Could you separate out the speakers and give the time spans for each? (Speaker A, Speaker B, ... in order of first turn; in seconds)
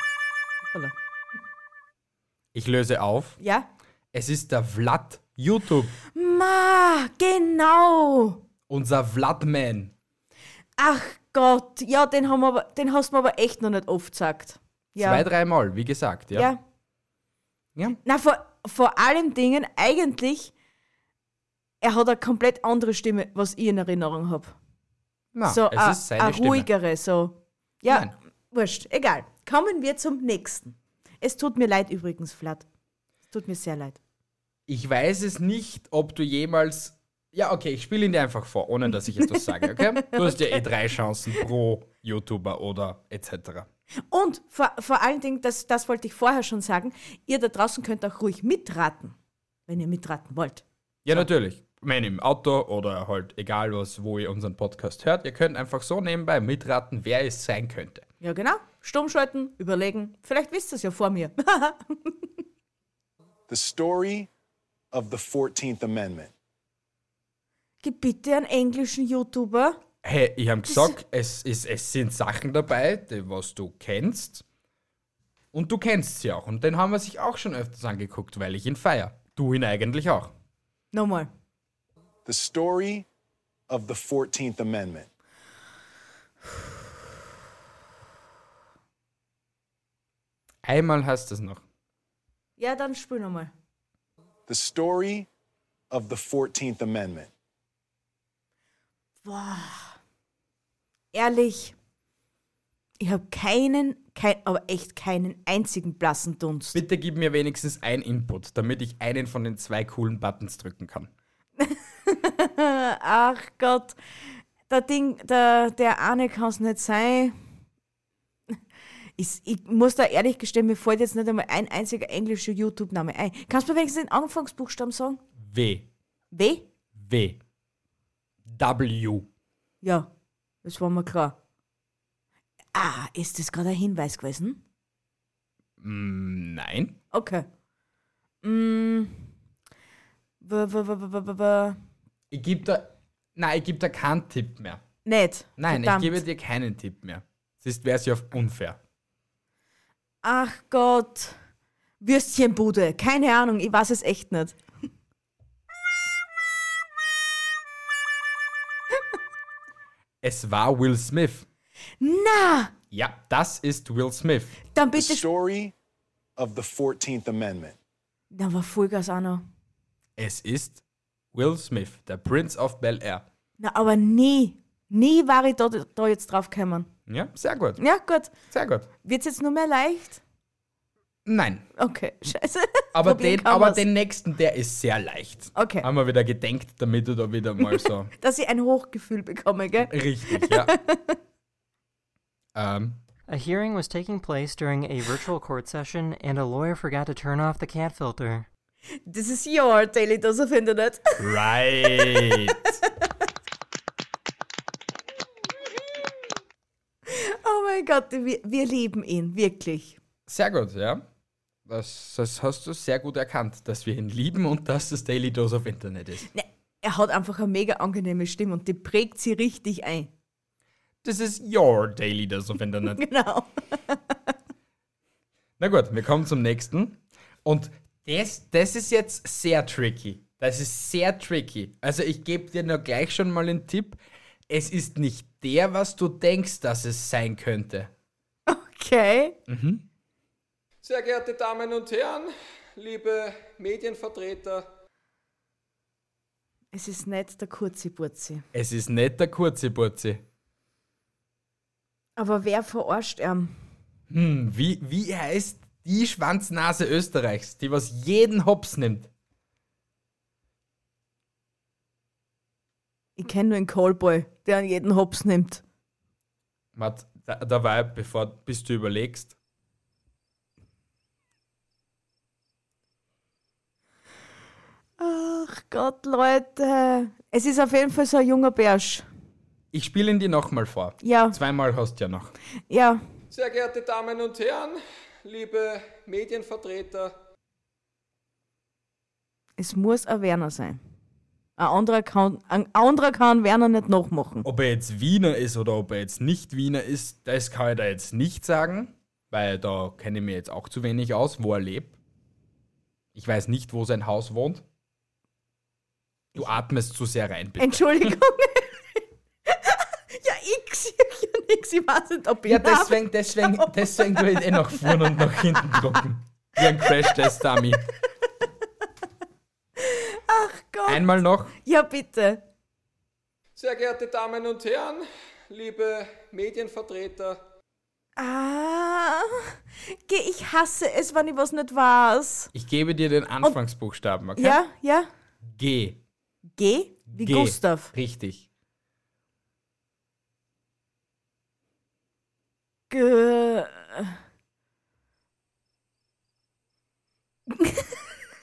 Speaker A: 2.5-3.4, 4.1-5.9, 8.7-9.9, 15.0-16.5, 25.3-26.7, 27.9-28.1, 34.7-43.7, 51.0-58.0, 70.0-74.4, 75.5-80.3, 90.6-91.6, 106.7-111.1, 125.4-125.9, 127.0-127.4, 128.4-129.3, 135.8-137.0, 142.3-144.8, 145.6-148.8, 160.2-161.4, 162.9-164.6, 170.2-170.8, 171.3-173.2, 177.1-177.8, 178.5-178.9, 181.2-181.7, 182.9-188.1, 189.8-190.7, 192.5-193.0, 201.2-202.7, 210.3-211.0, 211.7-216.3, 221.0-223.0, 225.6-237.9, 239.5-239.8, 248.5-250.2, 254.1-259.1, 266.7-269.3, 279.7-282.3, 294.4-301.9, 303.1-304.6, 306.3-308.1, 312.4-317.8, 320.9-321.5, 332.5-334.6, 335.4-336.0, 337.1-338.4
Speaker B: 3.4-3.7, 6.1-8.4, 10.8-15.2, 16.3-16.6, 18.0-20.5, 21.8-24.6, 25.4-32.6, 33.3-34.0, 39.4-40.6, 44.1-49.1, 49.7-51.2, 58.2-62.2, 67.8-69.8, 70.7-70.9, 80.9-81.3, 92.6-93.5, 99.2-100.0, 101.1-101.7, 103.0-106.8, 111.6-114.0, 114.7-117.3, 119.2-125.2, 126.3-126.7, 129.8-130.1, 130.6-131.3, 132.7-134.6, 137.1-137.4, 138.4-139.2, 140.4-141.8, 145.0-146.2, 150.2-151.4, 152.0-154.6, 162.0-162.7, 164.7-165.2, 168.3-169.4, 173.6-176.9, 177.8-178.3, 179.0-180.2, 181.8-183.8, 185.5-185.8, 187.6-191.2, 199.1-201.2, 202.0-202.5, 207.1-210.0, 216.3-220.1, 222.9-224.1, 238.5-239.3, 246.7-248.4, 252.2-253.6, 263.2-265.6, 275.0-279.1, 281.0-281.4, 282.7-283.0, 289.6-290.8, 291.6-294.4, 307.6-315.9, 316.7-317.4, 319.8-322.4, 328.2-332.5, 334.4-335.1, 336.6-337.9, 342.9-344.1, 347.5-348.0
Speaker C: 63.5-64.3, 64.9-66.3, 82.2-83.1, 83.7-85.1, 94.5-95.3, 95.9-97.3, 164.9-165.7, 166.4-167.8
Speaker D: 193.3-198.5
Speaker E: 240.8-244.7, 283.3-287.1, 323.6-327.4